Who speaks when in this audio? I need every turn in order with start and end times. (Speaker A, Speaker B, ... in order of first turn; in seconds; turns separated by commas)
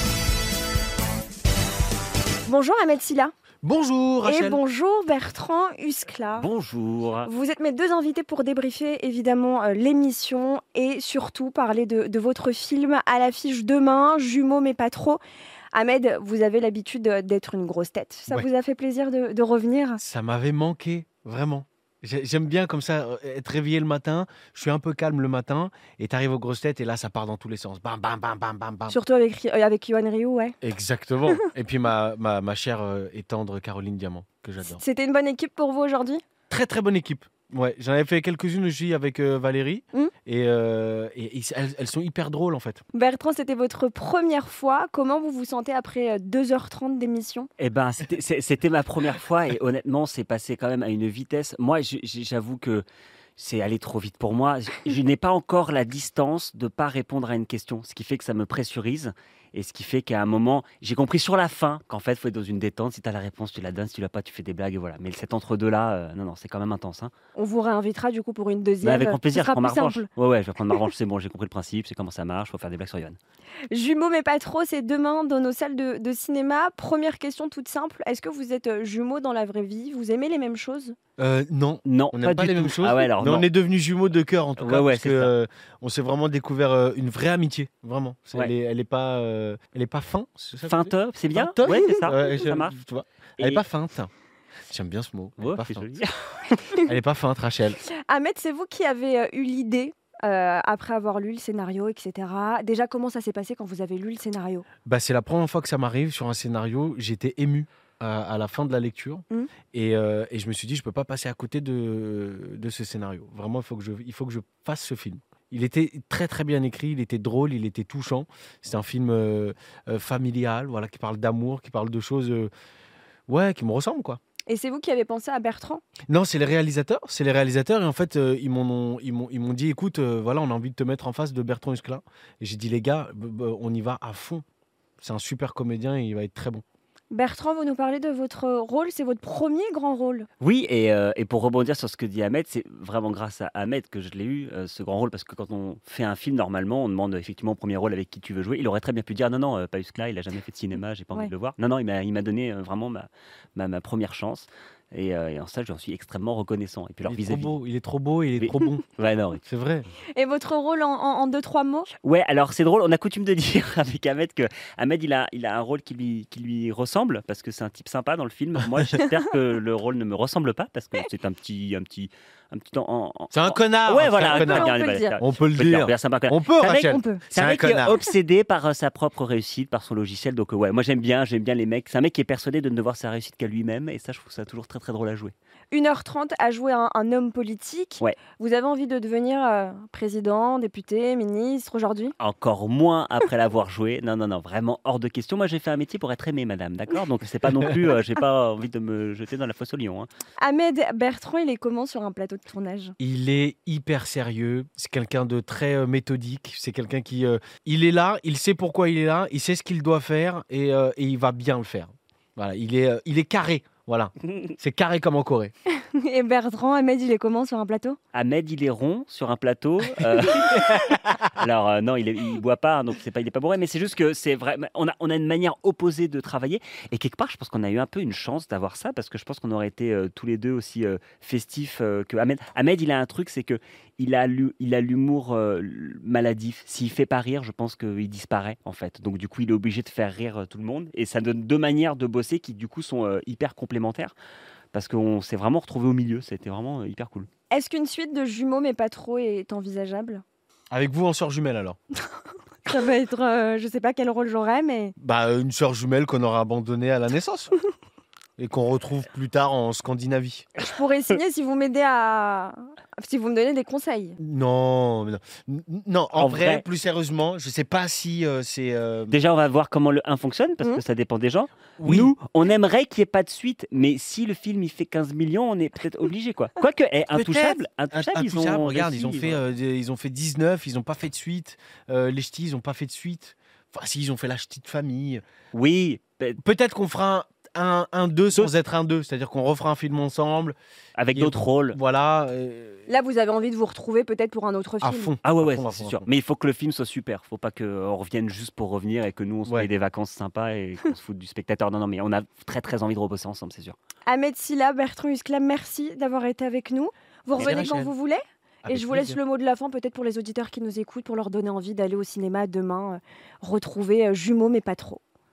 Speaker A: 2.4-3.3, Speaker B: 3.6-4.6, Speaker A: 4.2-6.5, Speaker C: 6.3-7.3, Speaker A: 7.2-15.2, Speaker A: 15.7-20.0, Speaker B: 20.0-29.0, Speaker A: 28.9-30.6, Speaker B: 30.6-34.8, Speaker A: 34.6-36.2, Speaker B: 36.5-42.8, Speaker A: 42.9-47.5, Speaker C: 47.6-52.8, Speaker C: 53.4-67.1, Speaker A: 67.3-70.1, Speaker C: 68.8-73.2, Speaker A: 73.7-81.0, Speaker B: 81.2-94.1, Speaker C: 81.8-83.5, Speaker C: 84.6-85.3, Speaker C: 90.7-92.8, Speaker A: 91.7-92.1, Speaker C: 93.4-93.6, Speaker B: 94.7-95.8, Speaker C: 95.4-96.8, Speaker B: 96.8-97.8, Speaker A: 98.1-104.6, Speaker B: 104.8-122.5, Speaker B: 123.3-124.2, Speaker A: 124.5-125.8, Speaker B: 126.1-134.4, Speaker B: 135.0-136.6, Speaker A: 137.1-140.3, Speaker C: 140.4-157.5, Speaker B: 157.1-158.8, Speaker C: 158.4-159.4, Speaker B: 159.4-159.9, Speaker A: 160.1-161.9, Speaker C: 162.0-185.3, Speaker B: 173.3-178.0, Speaker A: 174.3-175.2, Speaker A: 176.7-177.2, Speaker A: 185.7-192.1, Speaker C: 192.2-200.1, Speaker A: 200.4-202.9, Speaker B: 203.0-215.5, Speaker A: 215.7-218.0, Speaker C: 218.1-244.1, Speaker B: 220.7-221.2, Speaker C: 244.7-247.3, Speaker A: 247.5-250.2, Speaker B: 250.7-251.8, Speaker A: 252.7-254.9, Speaker B: 255.0-257.5, Speaker B: 258.4-260.5, Speaker A: 260.6-264.2, Speaker B: 264.2-269.2, Speaker C: 266.1-266.6, Speaker C: 269.1-279.4, Speaker B: 271.8-272.1, Speaker B: 277.1-285.2, Speaker C: 285.5-286.4, Speaker B: 286.4-290.6, Speaker C: 291.0-291.8, Speaker B: 291.1-292.9, Speaker A: 292.9-295.1, Speaker B: 294.8-296.1, Speaker C: 295.2-303.8, Speaker A: 304.1-315.0, Speaker B: 307.3-307.9, Speaker C: 307.4-307.8, Speaker B: 308.6-309.2